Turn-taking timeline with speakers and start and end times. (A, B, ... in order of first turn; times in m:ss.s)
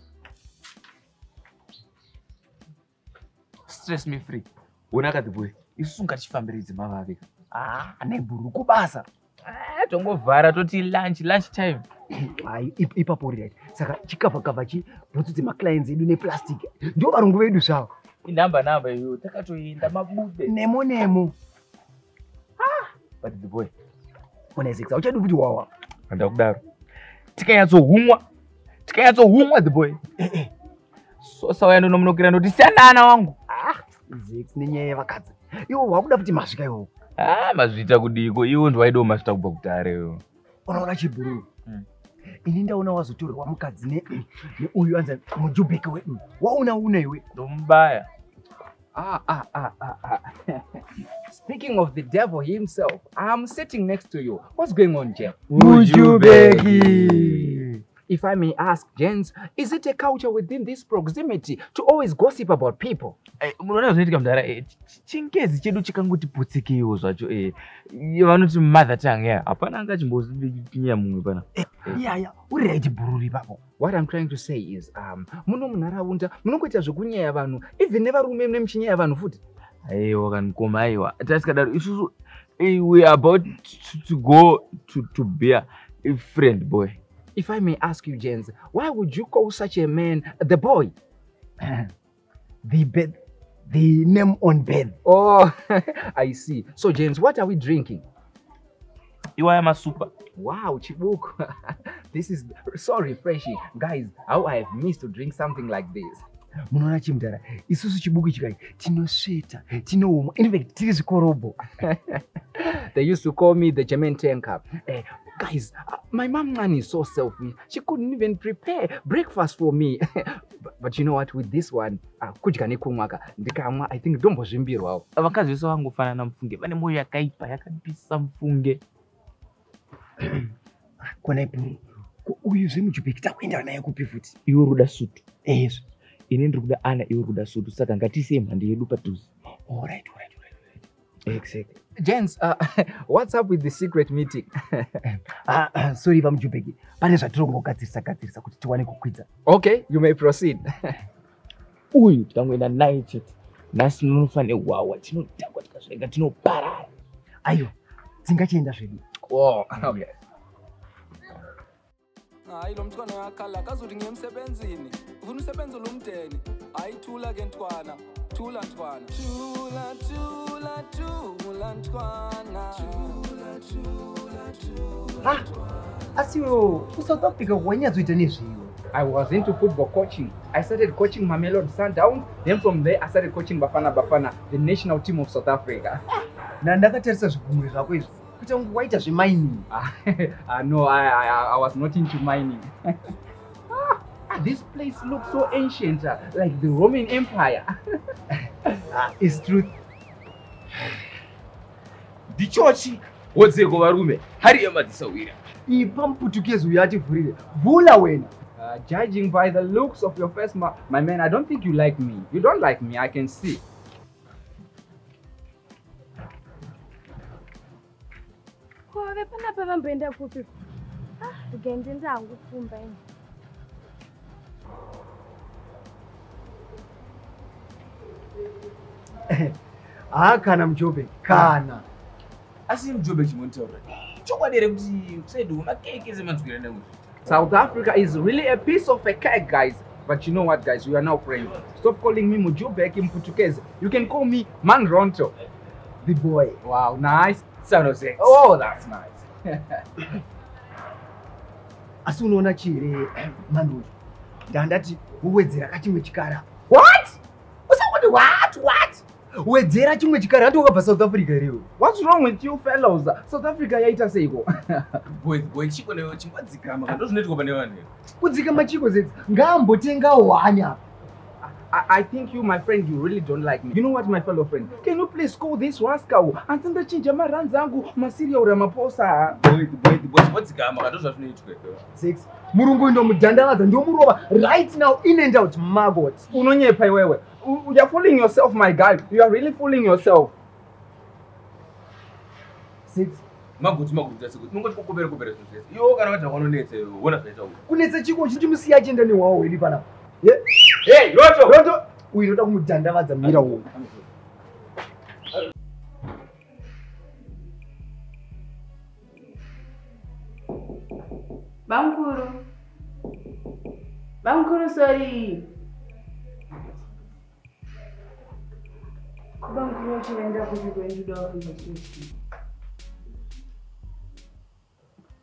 0:03.7-0:07.3 A
0:07.5-0:09.0 B
0:09.4-0:11.8 A
0:12.1-0:17.9 B
0:18.2-0:20.5 A
0:20.4-0:21.3 B
0:22.6-0:23.7 A
0:24.5-0:25.7 B
0:26.1-0:26.6 A
0:27.4-0:28.2 A
0:28.9-0:30.0 A
0:30.2-0:30.5 B
0:31.2-0:33.4 A
0:33.5-0:36.9 B
0:37.2-0:40.2 A
0:40.6-0:41.4 B
0:42.4-0:47.2 B
0:47.3-0:48.1 A
0:48.9-0:55.5 C
0:55.5-0:57.6 A
0:55.5-0:57.8 B
0:58.1-1:03.2 C
1:03.4-1:11.5 A
1:11.6-1:13.3 B
1:12.7-1:19.4 C
1:19.8-1:27.0 A
1:27.4-1:30.9 C
1:32.6-1:33.1 B
1:32.8-1:33.1 C
1:33.6-1:35.0 B
1:35.0-1:38.0 C
1:39.4-1:40.1 A
1:40.3-1:46.2 C
1:46.7-1:51.6 B
1:51.8-2:05.0 C
2:05.2-2:08.8 A
2:11.0-2:14.4 B
2:14.5-2:15.2 A
2:15.4-2:15.8 B
2:16.3-2:19.3 A
2:21.2-2:21.8 A
2:22.0-2:25.0 C
2:25.0-2:29.3 B
2:29.4-2:31.0 C
2:31.9-2:36.9 A
2:37.4-2:37.7 B
2:38.2-2:39.0 B
2:39.3-2:40.2 C
2:42.5-2:55.9 D
2:56.1-2:58.7 B
2:58.9-3:06.0 C
3:06.6-3:09.7 B
3:09.7-3:13.1 C
3:13.7-3:17.7 C
3:18.9-3:19.7 B
3:22.3-3:25.4 A
3:25.7-3:28.3 B
3:28.6-3:33.6 C
3:38.9-3:40.5 E
3:41.2-3:43.0 E
3:49.3-3:49.6 B
3:50.1-3:51.9 B
3:52.7-3:56.9 A
3:57.2-4:05.3 C
4:06.0-4:10.2 C
4:12.0-4:13.9 B
4:14.5-4:16.5 B
4:16.7-4:17.2 C
4:17.7-4:21.7 B
4:18.0-4:19.0 C
4:21.8-4:25.0 C
4:25.1-4:27.9 A
4:28.2-4:30.8 B
4:31.4-4:39.4 C
4:39.4-4:41.8 A
4:41.9-4:46.3 B
4:46.3-4:50.3 C
4:52.9-4:53.2 B
4:53.6-4:57.6 A
4:57.7-5:03.9 B
5:00.8-5:01.6 A
5:11.7-5:12.5 F
5:14.2-5:15.5 F
5:19.4-5:22.1 F